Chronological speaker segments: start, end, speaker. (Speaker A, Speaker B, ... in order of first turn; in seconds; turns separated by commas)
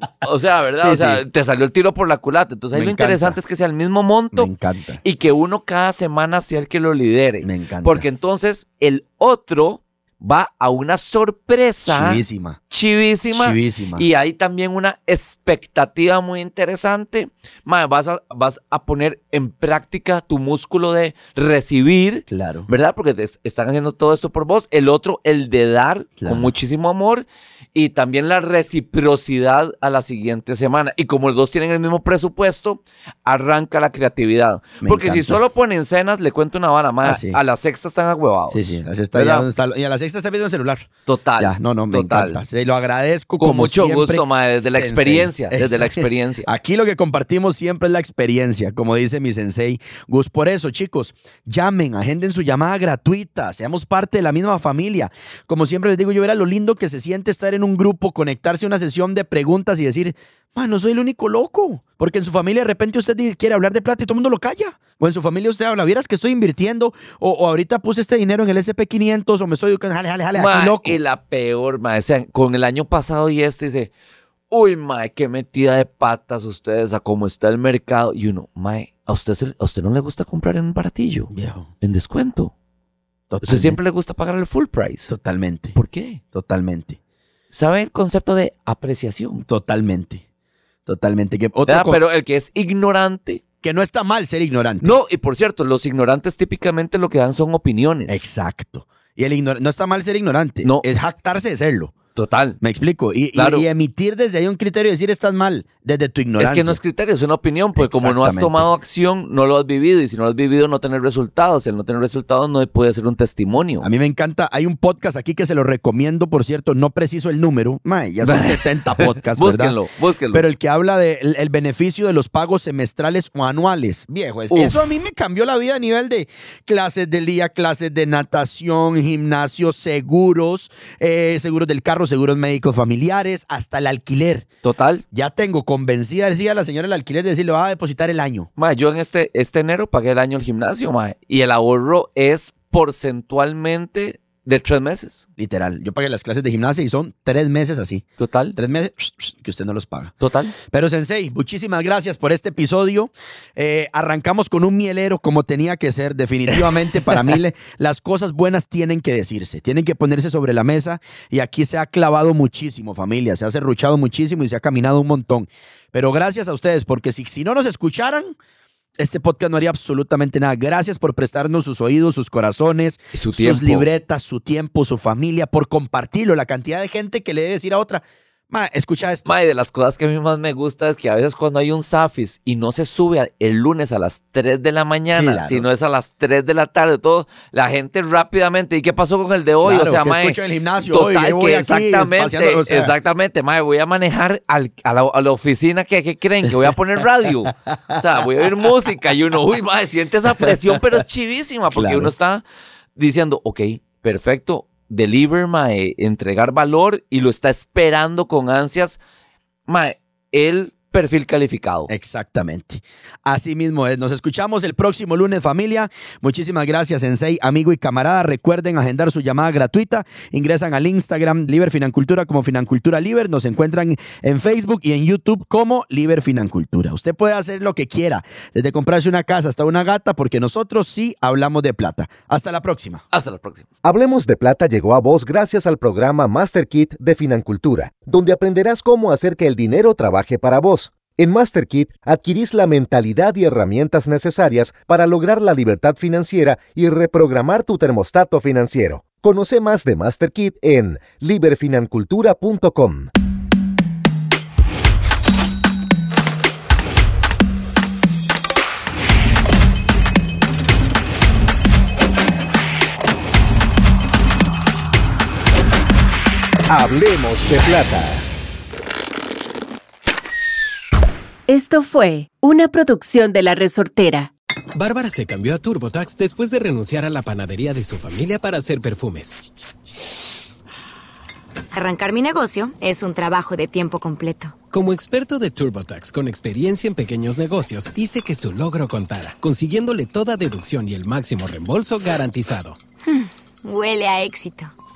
Speaker A: 0.2-4.5, Speaker B: 0.8-1.2, Speaker B: 2.7-3.4, Speaker B: 4.3-5.0, Speaker A: 5.0-39.5, Speaker B: 7.4-8.1, Speaker B: 11.9-12.6, Speaker B: 13.3-14.1, Speaker B: 22.3-22.7, Speaker B: 26.2-26.5, Speaker B: 34.8-35.4, Speaker B: 37.0-37.4, Speaker B: 38.5-71.0, Speaker A: 41.1-42.4, Speaker A: 43.4-46.5, Speaker A: 70.3-73.9, Speaker A: 74.5-82.5, Speaker B: 81.3-81.7, Speaker B: 83.3-83.8, Speaker A: 83.4-85.1, Speaker B: 85.1-85.8, Speaker A: 85.7-86.2, Speaker B: 86.3-87.0, Speaker A: 87.5-89.4, Speaker B: 89.3-90.2, Speaker B: 90.9-92.0, Speaker A: 91.7-93.4, Speaker B: 93.6-95.0, Speaker A: 94.8-98.2, Speaker B: 98.1-102.0, Speaker A: 102.2-102.6, Speaker B: 102.6-106.8, Speaker A: 103.3-103.7, Speaker A: 106.4-113.9, Speaker B: 107.8-108.8, Speaker B: 113.8-119.8, Speaker A: 118.2-120.5, Speaker B: 120.3-134.5, Speaker A: 124.5-124.9, Speaker A: 134.6-135.0, Speaker B: 135.1-138.5, Speaker A: 138.6-145.3, Speaker B: 145.4-168.4, Speaker A: 148.2-148.6, Speaker A: 150.2-150.6, Speaker B: 169.0-179.3, Speaker A: 173.1-173.9, Speaker A: 179.3-202.4, Speaker B: 185.1-185.7, Speaker B: 189.6-192.9, Speaker B: 197.5-198.2, Speaker B: 201.7-202.1, Speaker A: 203.0-209.0, Speaker A: 209.7-211.9, Speaker B: 211.9-233.0, Speaker A: 233.1-233.7, Speaker C: 233.8-253.1, Speaker C: 266.7-268.3, Speaker D: 271.5-274.3, Speaker E: 274.8-279.4, Speaker F: 281.7-284.6, Speaker E: 284.7-292.8, Speaker F: 293.0-294.7